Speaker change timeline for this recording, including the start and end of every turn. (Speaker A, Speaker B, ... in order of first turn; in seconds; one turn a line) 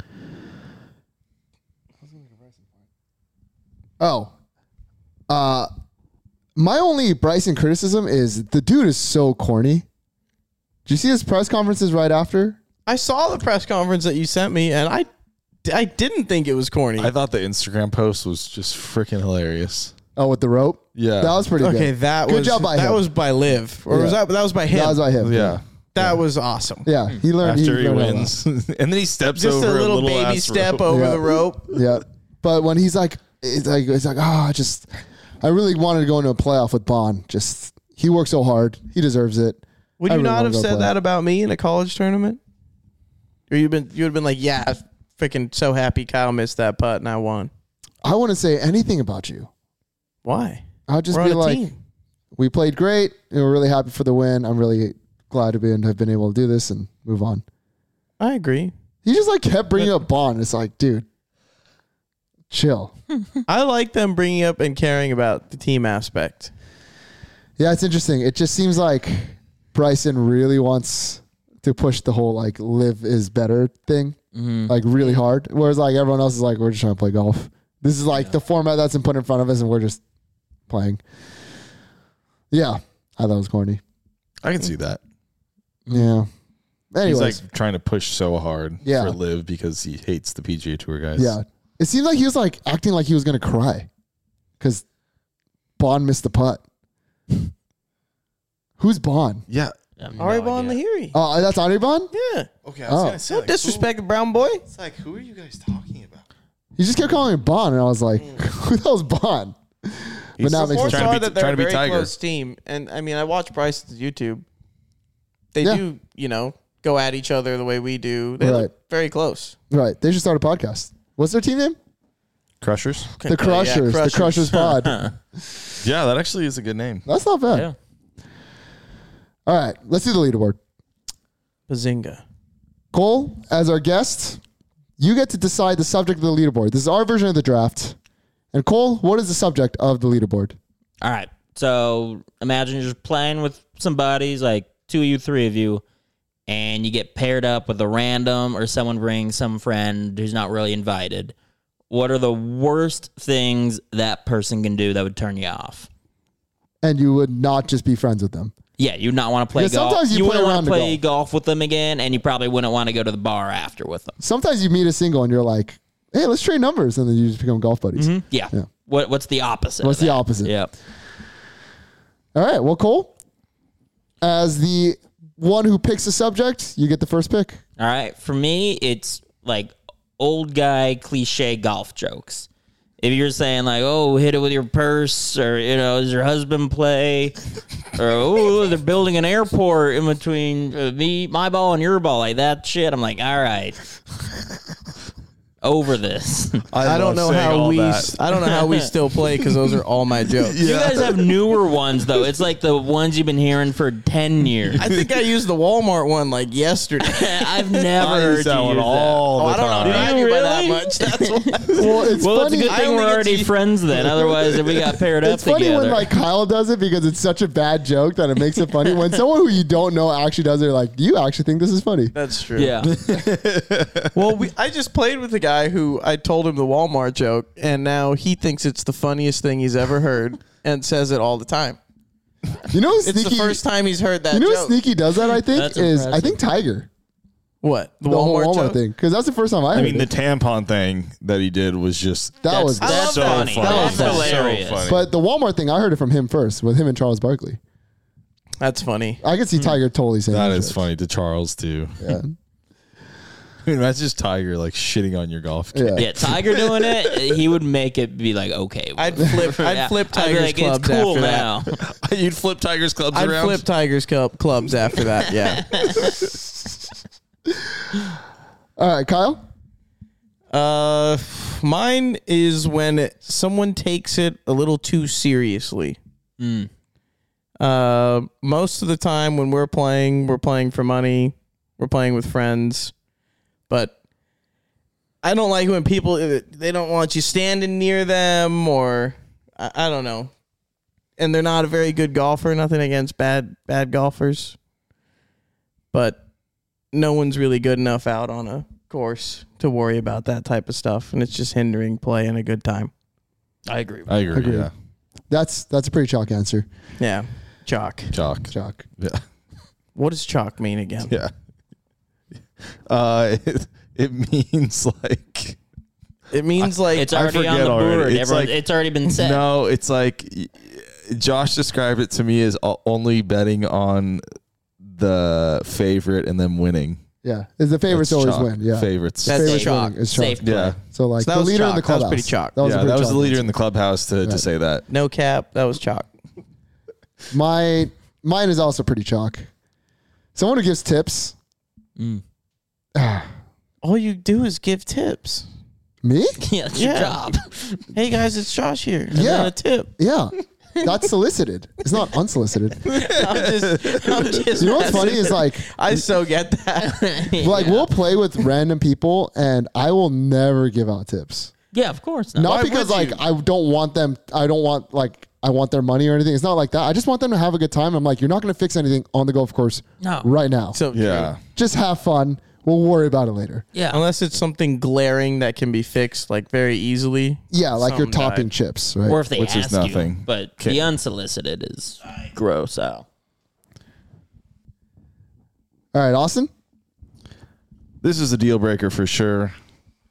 Speaker A: 4.0-4.3
Speaker A: 5.3-5.7
Speaker A: 6.6-9.9
Speaker A: 10.9-12.6
Speaker B: 12.9-15.1
Speaker B: 15.7-17.1
Speaker C: 17.0-19.9
Speaker A: 20.2-23.0
Speaker C: 21.0-21.4
Speaker B: 21.6-25.1
Speaker A: 23.9-24.2
Speaker A: 24.7-26.1
Speaker C: 25.2-25.6
Speaker B: 25.9-26.9
Speaker A: 26.9-28.3
Speaker C: 27.4-31.1
Speaker B: 29.3-31.7
Speaker A: 30.9-34.9
Speaker A: 35.4-40.9
Speaker B: 40.0-42.4
Speaker B: 43.5-47.5
Speaker A: 48.0-49.5
Speaker B: 50.2-51.8
Speaker A: 50.9-51.6
Speaker A: 52.4-57.4
Speaker B: 58.2-58.7
Speaker A: 59.0-61.1
Speaker A: 62.5-62.9
Speaker B: 63.5-66.5
Speaker A: 67.6-80.0
Speaker D: 74.3-75.1
Speaker A: 80.7-81.0
Speaker A: 82.5-83.8
Speaker C: 84.4-85.0
Speaker A: 85.9-86.3
Speaker A: 86.9-87.4
Speaker C: 87.0-91.3
Speaker A: 88.8-89.2
Speaker A: 91.2-93.9
Speaker A: 95.8-96.6
Speaker A: 98.8-99.5
Speaker C: 99.5-99.8
Speaker D: 100.0-100.8
Speaker B: 100.2-101.2
Speaker A: 101.1-102.1
Speaker B: 102.1-102.5
Speaker C: 102.6-103.9
Speaker A: 102.9-103.2
Speaker B: 103.3-104.6
Speaker C: 104.7-106.2
Speaker A: 106.8-111.1
Speaker B: 108.2-108.4
Speaker C: 110.4-112.1
Speaker B: 110.5-114.5
Speaker B: 115.5-119.5
Speaker A: 118.4-118.7
Speaker A: 119.7-121.8
Speaker C: 122.6-123.1
Speaker B: 123.2-124.7
Speaker A: 123.3-125.1
Speaker D: 124.7-125.1
Speaker C: 125.8-127.0
Speaker A: 127.1-127.7
Speaker D: 127.5-127.8
Speaker A: 129.5-130.6
Speaker B: 131.7-132.2
Speaker A: 132.9-134.4
Speaker A: 135.0-138.0
Speaker A: 138.5-140.6
Speaker D: 141.0-145.8
Speaker D: 146.5-151.3
Speaker D: 151.9-155.9
Speaker A: 156.8-158.5
Speaker D: 158.8-164.2
Speaker A: 159.5-161.0
Speaker A: 164.2-168.7
Speaker D: 168.0-170.7
Speaker A: 169.8-170.5
Speaker A: 172.3-173.1
Speaker A: 174.2-177.6
Speaker D: 177.8-182.5
Speaker D: 183.0-187.4
Speaker D: 187.9-193.8
Speaker D: 195.6-196.7
Speaker C: 196.7-198.1
Speaker B: 196.8-200.6
Speaker C: 200.4-201.3
Speaker D: 200.6-204.8
Speaker C: 204.8-205.1
Speaker B: 204.8-207.8
Speaker D: 207.0-216.1
Speaker C: 208.0-210.1
Speaker B: 209.4-214.9
Speaker A: 211.8-212.8
Speaker A: 215.2-222.1
Speaker B: 222.1-222.8
Speaker D: 222.6-222.9
Speaker C: 222.8-224.2
Speaker B: 224.2-231.8
Speaker A: 232.7-233.6
Speaker B: 233.0-234.8
Speaker A: 234.3-236.9
Speaker D: 235.4-236.4
Speaker B: 237.6-238.8
Speaker A: 238.1-240.1
Speaker C: 239.7-245.1
Speaker A: 242.4-244.3
Speaker D: 242.5-244.9
Speaker B: 242.8-244.6
Speaker A: 244.9-247.6
Speaker B: 248.6-249.2
Speaker A: 249.2-250.8
Speaker C: 250.3-252.2
Speaker A: 252.0-252.3
Speaker C: 253.6-257.4
Speaker A: 255.7-256.1
Speaker D: 256.0-261.8
Speaker B: 259.0-261.5
Speaker C: 261.7-263.6
Speaker B: 263.1-265.8
Speaker D: 265.6-266.2
Speaker A: 268.8-269.4
Speaker B: 270.5-276.0
Speaker D: 276.4-276.7
Speaker B: 277.6-282.9
Speaker B: 283.7-283.9
Speaker B: 285.2-290.3
Speaker B: 291.2-294.6
Speaker B: 295.9-296.2
Speaker B: 296.9-302.9
Speaker D: 303.7-304.1
Speaker C: 304.1-304.7
Speaker A: 304.3-304.7
Speaker A: 305.3-306.7
Speaker B: 307.0-308.1
Speaker C: 308.1-309.2
Speaker A: 308.5-308.9
Speaker B: 309.9-311.1
Speaker C: 311.1-311.3
Speaker C: 312.6-315.6
Speaker B: 316.3-317.1
Speaker C: 316.6-318.5
Speaker D: 316.9-319.4
Speaker C: 319.1-324.2
Speaker C: 324.8-327.0
Speaker A: 327.2-333.5
Speaker C: 327.9-329.4
Speaker B: 329.2-330.0
Speaker D: 329.3-330.8
Speaker C: 330.4-330.8
Speaker B: 331.2-332.6
Speaker C: 332.6-334.9
Speaker B: 334.9-336.1
Speaker A: 337.3-339.5
Speaker A: 340.4-341.4
Speaker D: 342.0-342.2
Speaker A: 343.0-343.3
Speaker B: 343.8-345.5
Speaker A: 346.0-346.4
Speaker D: 346.4-347.9
Speaker B: 346.7-347.3
Speaker B: 347.9-349.9
Speaker A: 349.1-352.9
Speaker B: 352.9-357.4
Speaker C: 353.1-354.3
Speaker A: 354.6-355.7
Speaker D: 356.8-357.9
Speaker A: 357.4-361.5
Speaker D: 361.7-362.6
Speaker A: 362.4-370.8
Speaker B: 362.5-363.2
Speaker D: 370.0-370.3
Speaker B: 370.7-371.3
Speaker C: 370.9-371.4
Speaker A: 371.6-373.6
Speaker D: 373.8-374.0
Speaker B: 373.9-378.5
Speaker A: 377.5-379.2
Speaker D: 379.1-383.0
Speaker C: 379.4-380.9
Speaker A: 385.9-386.5
Speaker C: 388.0-389.6